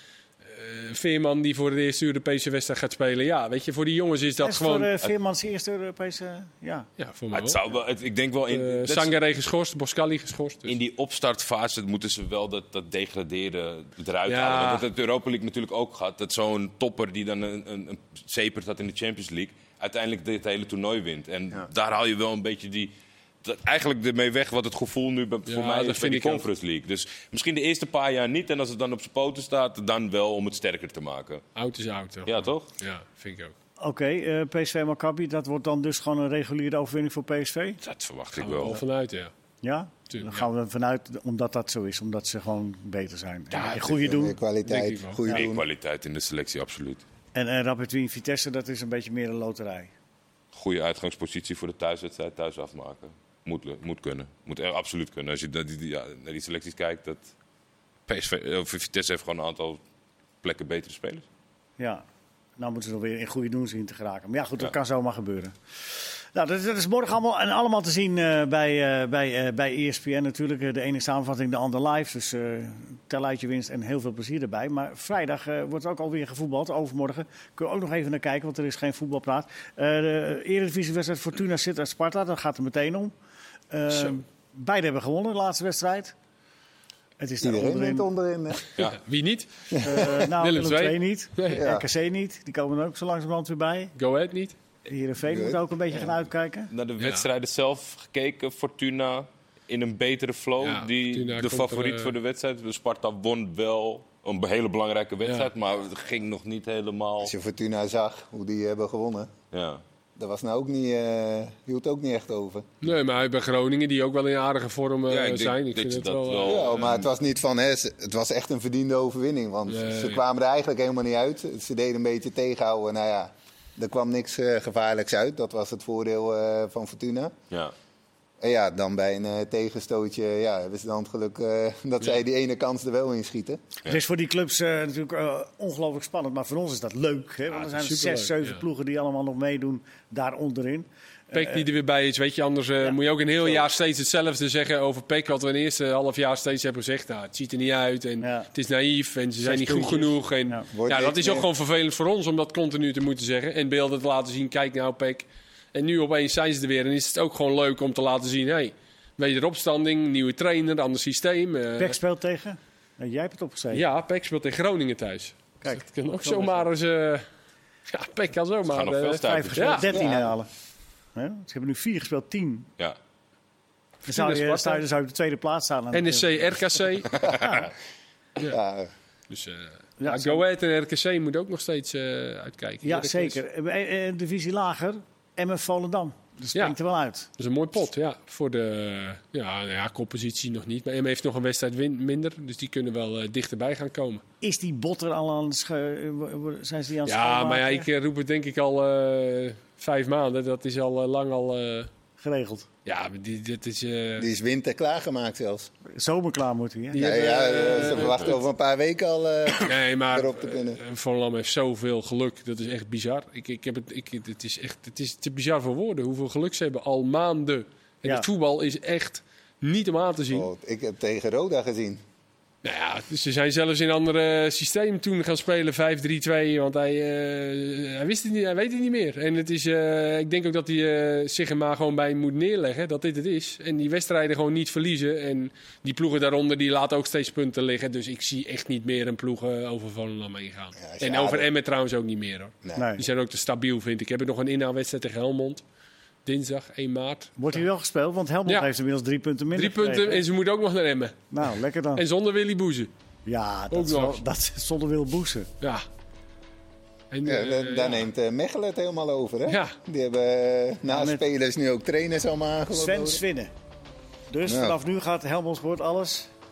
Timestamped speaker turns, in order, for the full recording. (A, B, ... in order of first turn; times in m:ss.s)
0:00.4-0:04.9 A
0:04.4-0:06.9 B
0:07.0-0:07.6 A
0:07.3-0:09.1 C
0:08.5-0:10.8 A
0:10.7-0:22.9 C
0:14.3-0:14.8 A
0:23.4-0:31.4 C
0:25.5-0:26.4 A
0:31.6-0:33.5 A
0:32.3-0:32.7 C
0:33.8-0:37.8 B
0:37.8-0:38.8 C
0:38.4-0:39.3 A
0:39.6-0:44.4 B
0:40.1-0:40.5 A
0:43.6-0:43.8 A
0:44.0-0:45.6 D
0:44.6-0:45.4 A
0:45.3-0:47.0 C
0:47.4-0:49.9 B
0:50.5-0:57.3 C
0:58.1-0:59.8 C
1:00.4-1:01.2 C
1:01.8-1:02.0 B
1:02.6-1:23.1 B
1:23.7-1:26.1 B
1:27.2-1:28.1 B
1:27.4-1:28.6 D
1:28.8-1:31.6 A
1:29.7-1:30.2 D
1:29.8-1:34.0 B
1:31.5-1:31.9 D
1:34.0-1:34.6 A
1:34.9-1:36.7 B
1:35.3-1:35.6 D
1:36.7-1:47.3 C
1:37.0-1:37.3 A
1:40.6-1:42.1 A
1:45.2-1:45.5 A
1:47.2-1:49.3 D
1:49.5-1:49.8 C
1:50.2-1:52.7 D
1:52.8-1:56.8 A
1:55.1-1:57.1 C
1:56.4-2:07.3 D
1:59.7-2:00.2 A
2:08.4-2:13.6 D
2:13.9-2:21.7 B
2:17.5-2:18.6 A
2:21.3-2:42.0 A
2:22.8-2:23.6 B
2:28.2-2:28.5 B
2:29.4-2:30.7 B
2:30.7-2:31.5 D
2:41.8-2:43.8 B
2:43.7-2:47.3 A
2:45.6-2:46.7 B
2:47.9-2:50.1 A
2:48.7-2:50.3 C
2:49.2-2:50.5 B
2:51.2-2:52.7 B
2:54.1-2:56.5 B
2:54.1-2:54.8 A
2:55.9-2:57.4 A
2:57.3-2:57.7 B
2:58.5-2:58.9 D
2:59.3-3:03.4 A
3:00.0-3:00.4 B
3:02.8-3:07.3 B
3:07.4-3:14.2 A
3:14.4-3:17.9 B
3:17.1-3:21.9 A
3:22.2-3:22.7 B
3:22.8-3:24.3 A
3:24.2-3:25.7 D
3:25.9-3:27.1 B
3:26.9-3:28.4 A
3:27.0-3:30.8 D
3:29.6-3:40.5 A
3:40.3-3:42.0 D
3:42.6-4:05.6 A
4:00.8-4:01.5 D
4:02.8-4:03.0 B
4:06.2-4:07.3 A
4:07.4-4:10.2 B
4:09.6-4:11.3 A
4:11.3-4:12.0 B
4:12.0-4:12.9 A
4:13.3-4:15.5 B
4:13.7-4:14.2 A
4:15.6-4:15.9 A
4:17.1-4:18.1 A
4:17.2-4:23.2 D
4:19.5-4:19.8 A
4:20.8-4:21.2 B
4:22.7-4:23.5 B
4:24.3-4:26.3 B
4:24.5-4:24.8 D